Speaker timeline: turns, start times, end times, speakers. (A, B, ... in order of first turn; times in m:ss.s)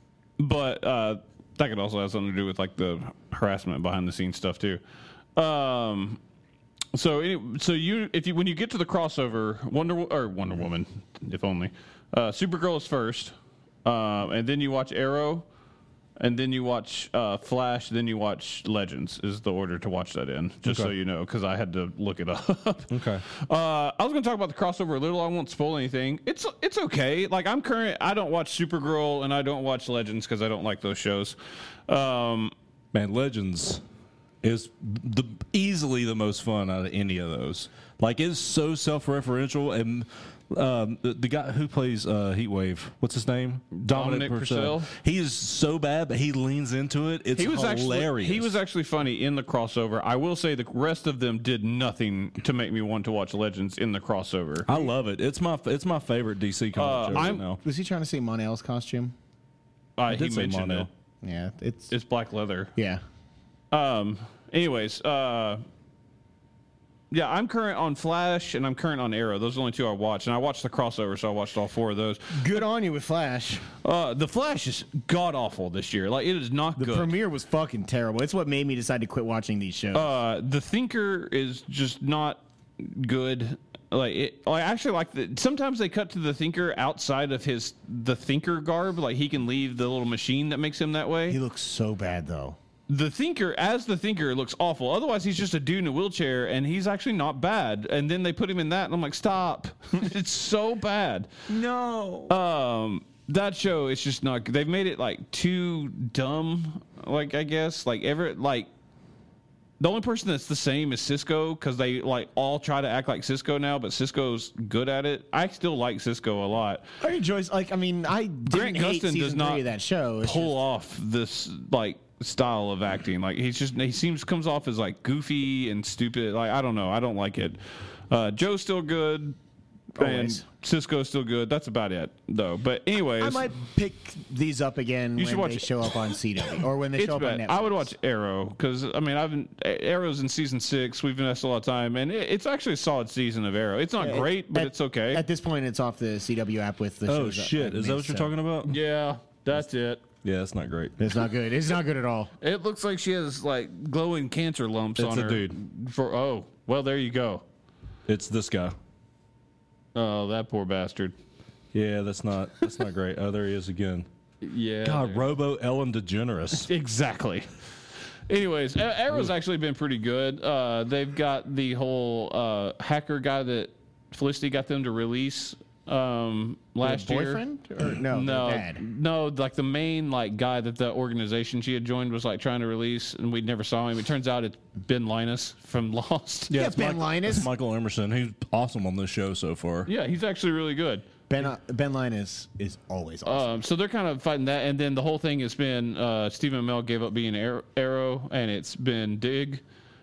0:00.4-0:04.8 A
0:05.4-0:06.2 A
0:06.9-0:15.5 A
0:16.2-0:31.4 A
0:20.7-0:20.9 B
0:22.9-0:23.2 B
0:31.9-0:32.5 A
0:32.9-0:33.8 B
0:34.4-0:48.6 B
0:43.7-0:44.9 A
0:47.4-0:54.7 A
0:54.7-0:57.6 B
0:56.8-0:57.4 A
0:57.1-0:59.1 C
1:00.0-1:00.9 A
1:00.1-1:00.9 B
1:01.2-1:01.9 C
1:01.9-1:02.7 A
1:02.8-1:03.0 C
1:03.7-1:05.6 A
1:07.1-1:12.6 A
1:12.3-1:13.6 C
1:13.8-1:17.1 A
1:16.8-1:20.2 C
1:19.9-1:31.4 A
1:31.3-1:32.6 C
1:32.9-1:41.3 A
1:41.5-1:42.3 C
1:42.3-1:48.7 A
1:49.8-1:56.8 A
1:57.0-2:00.6 C
1:58.5-1:59.6 A
2:00.2-2:09.4 A
2:10.0-2:10.4 C
2:10.0-2:13.5 A
2:13.2-2:17.9 C
2:15.2-2:15.7 A
2:17.0-2:25.2 A
2:24.0-2:28.3 C
2:27.1-2:28.8 B
2:28.6-2:30.0 A
2:30.2-2:31.0 B
2:31.0-2:32.3 C
2:32.4-2:37.4 A
2:35.0-2:35.6 B
2:38.1-2:38.8 B
2:40.0-2:41.1 A
2:41.7-2:44.1 B
2:44.4-2:45.3 A
2:44.8-2:46.7 B
2:46.6-2:47.5 A
2:48.3-2:57.4 A
2:56.8-2:58.8 C
2:58.1-3:06.6 A
3:06.5-3:09.9 B
3:06.5-3:07.5 C
3:09.9-3:11.1 A
3:11.3-3:13.6 C
3:13.2-3:19.6 A